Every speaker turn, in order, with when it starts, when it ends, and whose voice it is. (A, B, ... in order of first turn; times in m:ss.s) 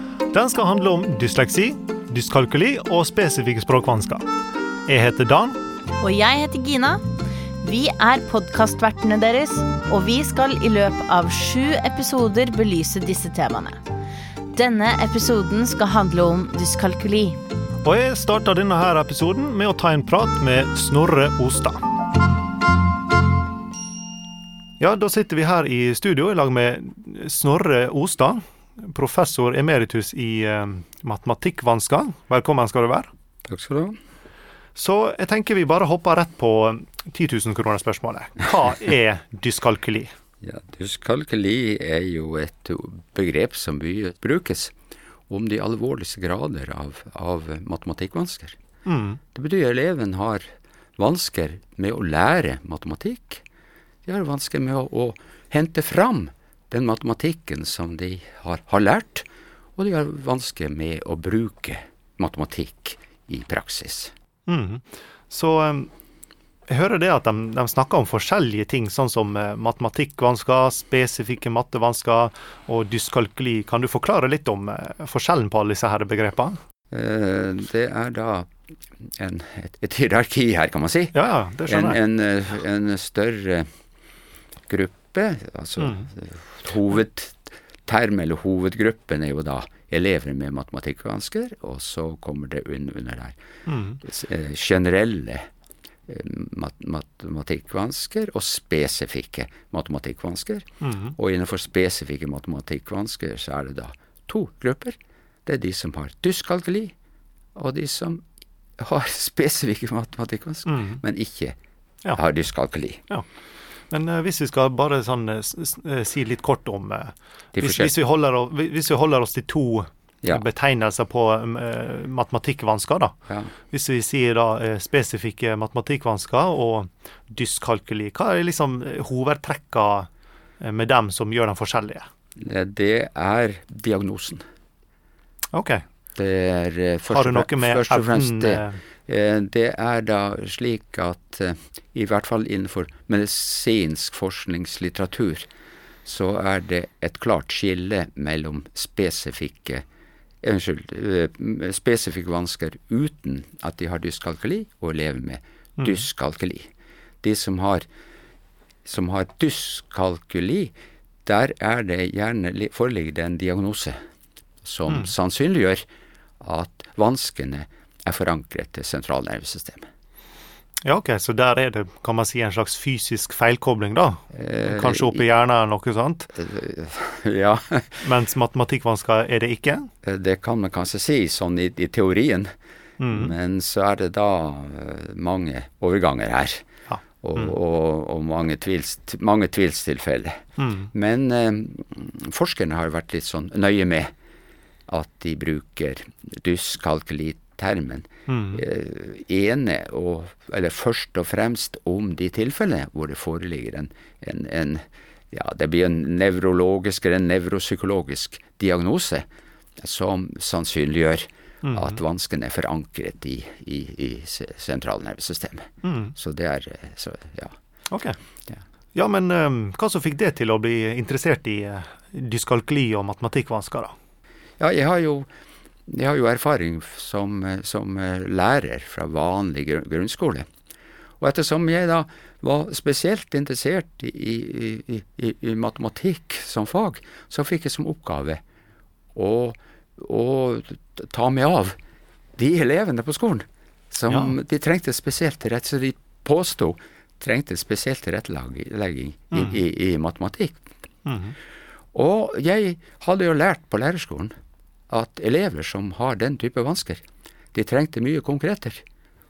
0:00.3-0:04.2 A
0:04.9-0:05.6 A
0:06.0-0:07.0 B
0:07.6-0:13.8 B
0:14.5-0:17.4 B
0:17.8-0:21.8 A
0:24.8-0:33.1 A
0:33.5-0:34.0 C
0:34.8-0:40.1 A
0:40.4-0:44.7 C
0:45.3-0:48.6 C
0:48.9-0:49.2 A
0:49.3-0:53.4 C
0:54.0-1:04.1 C
1:04.5-1:05.9 A
1:06.7-1:16.6 A
1:16.9-1:21.2 C
1:21.1-1:22.0 A
1:21.7-1:23.7 C
1:24.7-1:33.4 C
1:25.8-1:26.1 A
1:33.7-1:34.0 A
1:34.0-1:35.5 C
1:36.1-1:46.9 C
1:40.8-1:41.2 A
1:47.6-1:48.2 C
1:48.8-1:51.6 C
1:50.7-1:51.0 A
1:52.1-1:53.0 C
1:53.9-2:03.1 A
1:57.6-1:57.9 C
2:03.7-2:10.1 A
2:10.6-2:12.1 A
2:12.4-2:14.4 C
2:15.5-2:15.8 A
2:16.2-2:25.5 C
2:17.1-2:18.8 A
2:26.0-2:29.8 C
2:30.4-2:36.7 C
2:37.2-2:37.9 C
2:38.8-2:40.7 C
2:41.3-2:44.0 C
2:44.6-2:45.8 C
2:46.4-2:49.9 C
2:50.8-2:56.3 A
2:54.3-2:55.2 C
2:56.4-2:58.1 C
2:58.0-2:59.9 A
3:00.0-3:02.5 C
3:03.0-3:03.3 A
3:03.1-3:06.7 C
3:06.9-3:07.6 A
3:07.2-3:10.4 C
3:10.6-3:10.9 A
3:10.9-3:14.1 C
3:14.9-3:29.3 C
3:18.3-3:18.6 A
3:29.8-3:37.6 C
3:31.6-3:32.0 A
3:35.8-3:36.2 A
3:37.9-3:38.2 A
3:39.0-3:43.9 A
3:44.6-3:45.3 C
3:45.9-3:50.5 C
3:51.2-3:58.4 C
3:59.2-4:01.8 C
4:02.4-4:10.6 C
4:04.1-4:04.3 A
4:09.3-4:09.6 A
4:11.1-4:11.4 A
4:11.9-4:14.3 C
4:14.9-4:18.8 C